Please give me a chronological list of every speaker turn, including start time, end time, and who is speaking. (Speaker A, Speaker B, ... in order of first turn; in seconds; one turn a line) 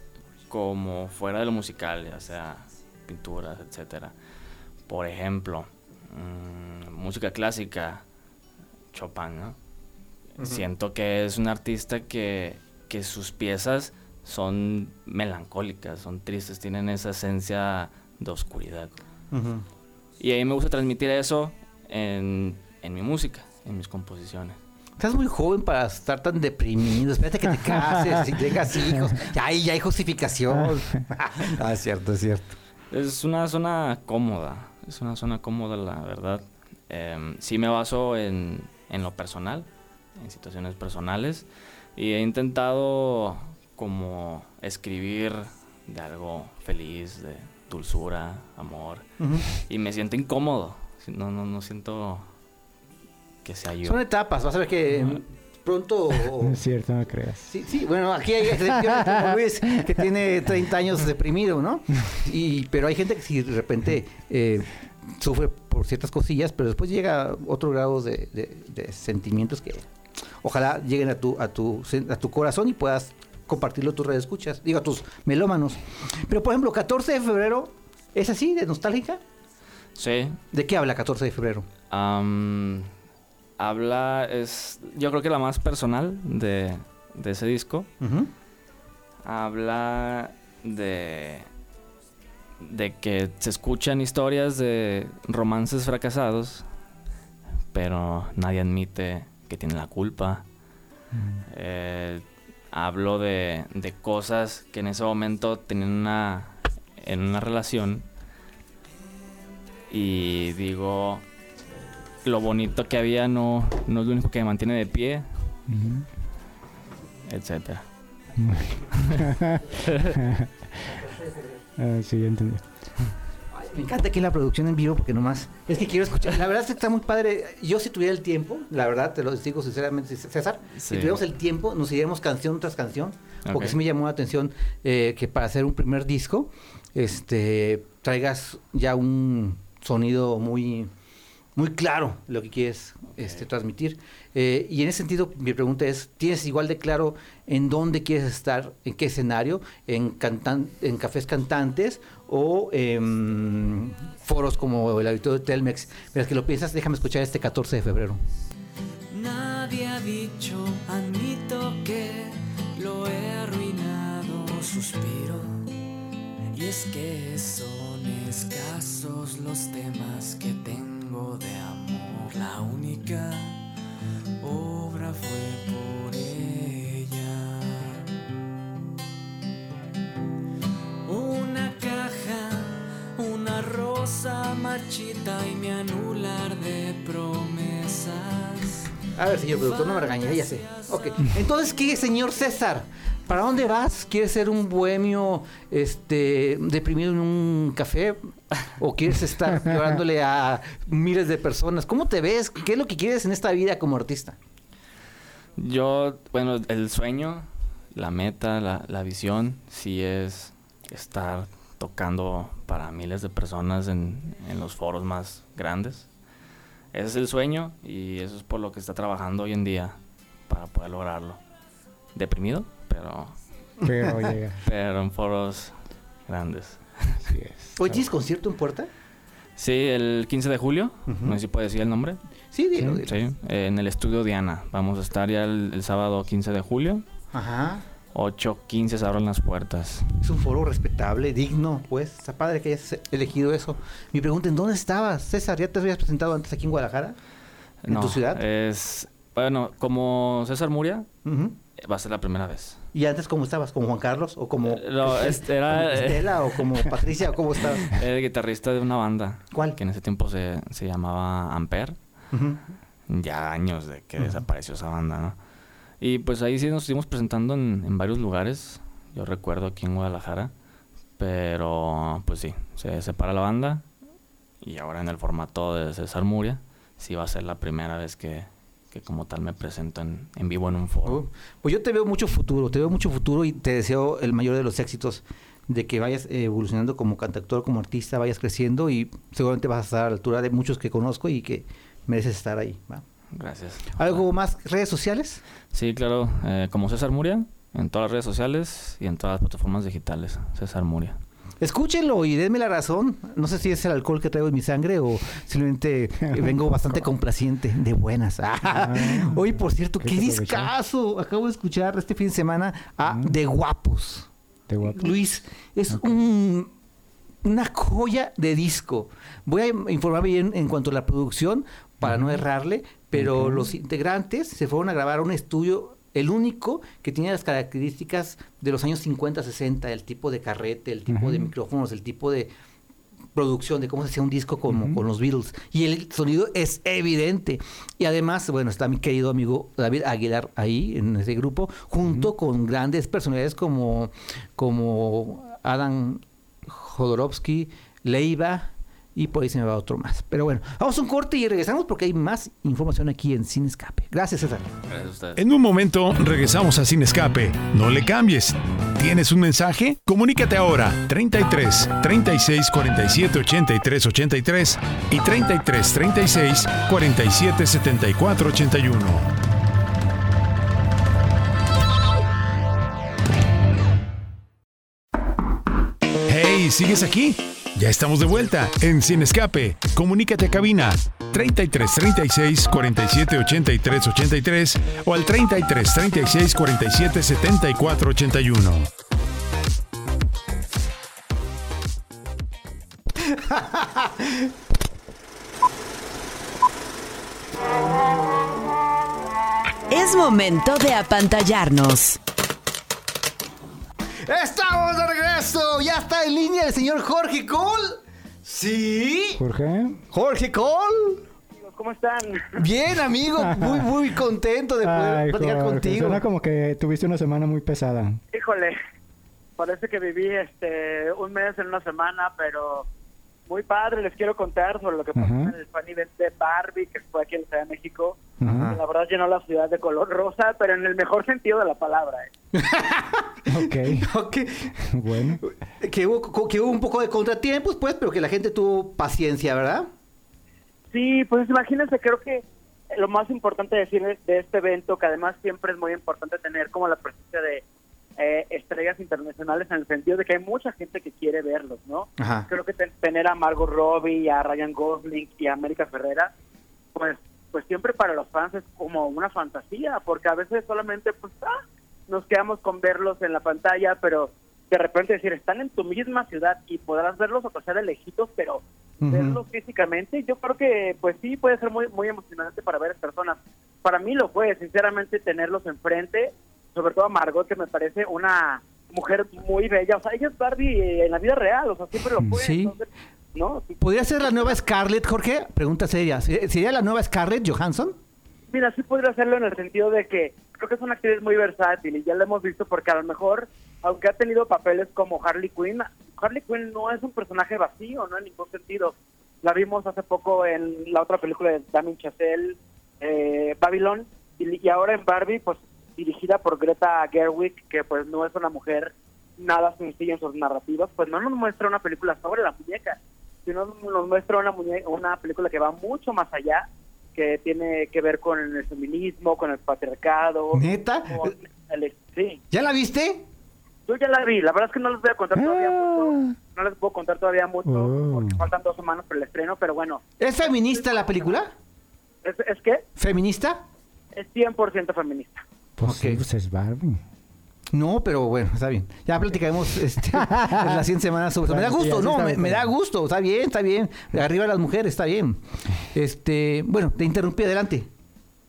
Speaker A: 0.5-4.1
Speaker A: 4.9-8.0
Speaker A: 8.9-9.6
Speaker A: 10.4-19.0
Speaker B: 19.3-19.6
Speaker A: 20.2-24.6
Speaker B: 25.0-32.5
Speaker C: 27.7-28.1
Speaker C: 30.5-31.1
Speaker A: 32.9-52.3
Speaker B: 49.2-49.4
Speaker A: 53.4-54.0
Speaker B: 53.8-56.6
Speaker C: 56.4-57.5
Speaker B: 57.5-69.9
Speaker C: 58.7-60.1
Speaker B: 70.4-79.2
Speaker A: 79.9-80.4
Speaker B: 80.5-81.7
Speaker A: 81.9-82.9
Speaker A: 83.6-87.9
Speaker B: 88.0-88.3
Speaker A: 89.2-91.5
Speaker A: 92.6-96.7
Speaker A: 97.7-100.4
Speaker C: 101.1-101.4
Speaker A: 101.5-108.0
Speaker A: 109.9-111.2
Speaker A: 112.2-115.3
Speaker C: 115.7-116.1
Speaker A: 117.3-117.8
Speaker C: 118.4-121.0
Speaker C: 121.8-123.1
Speaker B: 123.5-140.9
Speaker A: 130.8-131.2
Speaker A: 133.5-133.8
Speaker B: 141.6-158.2
Speaker D: 159.1-165.7
Speaker D: 166.5-173.6
Speaker D: 174.4-178.0
Speaker D: 181.0-188.9
Speaker B: 189.1-204.4
Speaker D: 189.5-191.4
Speaker A: 205.6-216.1
Speaker A: 216.9-219.9
Speaker A: 220.5-221.4
Speaker A: 222.1-223.4
Speaker C: 223.8-224.6
Speaker A: 224.6-227.3
Speaker C: 227.2-228.0
Speaker B: 227.8-228.9
Speaker A: 229.6-232.2
Speaker B: 231.1-231.4
Speaker B: 232.5-233.2
Speaker C: 232.8-233.0
Speaker A: 233.0-237.0
Speaker B: 237.3-237.8
Speaker A: 238.1-240.1
Speaker B: 240.2-247.2
Speaker A: 247.8-251.1
Speaker B: 247.9-248.4
Speaker B: 251.2-251.5
Speaker A: 251.8-252.8
Speaker B: 252.9-257.9
Speaker A: 254.6-256.6
Speaker A: 257.9-262.0
Speaker B: 259.5-259.8
Speaker B: 262.3-262.6
Speaker A: 263.1-265.4
Speaker A: 266.0-270.5
Speaker A: 271.2-273.9
Speaker A: 274.6-281.2
Speaker B: 281.0-293.0
Speaker A: 293.3-294.2
Speaker B: 294.0-295.4
Speaker A: 295.7-301.2
Speaker B: 301.6-314.3
Speaker C: 306.2-307.0
Speaker C: 308.6-310.7
Speaker C: 313.1-313.4
Speaker C: 314.7-315.2
Speaker B: 314.8-316.7
Speaker C: 315.9-316.1
Speaker B: 317.4-332.5
Speaker C: 322.0-322.4
Speaker C: 323.1-323.7
Speaker C: 331.1-331.5
Speaker B: 333.3-354.7
Speaker C: 334.7-335.0
Speaker C: 342.1-342.3
Speaker A: 354.9-355.4
Speaker E: 355.4-369.3
Speaker E: 376.3-388.9
Speaker B: 393.3-394.4
Speaker F: 399.9-402.2
Speaker B: 404.2-409.4
Speaker C: 409.4-410.0
Speaker B: 410.1-411.2
Speaker G: 411.5-412.6
Speaker B: 412.5-416.2
Speaker C: 413.4-413.9
Speaker C: 414.8-418.2
Speaker G: 418.3-418.8
Speaker G: 419.6-422.9
Speaker G: 423.5-432.3
Speaker C: 425.1-425.5
Speaker B: 428.4-428.8
Speaker C: 428.4-428.8
Speaker B: 432.5-434.8
Speaker C: 433.5-434.1
Speaker C: 434.8-435.4
Speaker B: 435.4-439.9
Speaker G: 440.9-447.6
Speaker G: 448.2-456.3
Speaker B: 452.2-452.5
Speaker G: 456.9-484.6
Speaker B: 469.0-469.4
Speaker B: 482.3-482.7
Speaker B: 483.8-488.0
Speaker G: 488.5-522.4
Speaker B: 520.5-521.4
Speaker B: 522.5-523.2
Speaker G: 523.9-531.4
Speaker C: 525.3-526.4
Speaker C: 527.6-528.4
Speaker B: 530.2-531.5
Speaker G: 532.2-532.9
Speaker B: 533.0-533.6
Speaker G: 534.1-535.4
Speaker C: 535.8-537.0
Speaker B: 535.8-536.2
Speaker B: 537.7-547.9
Speaker C: 540.1-540.8
Speaker C: 541.5-542.7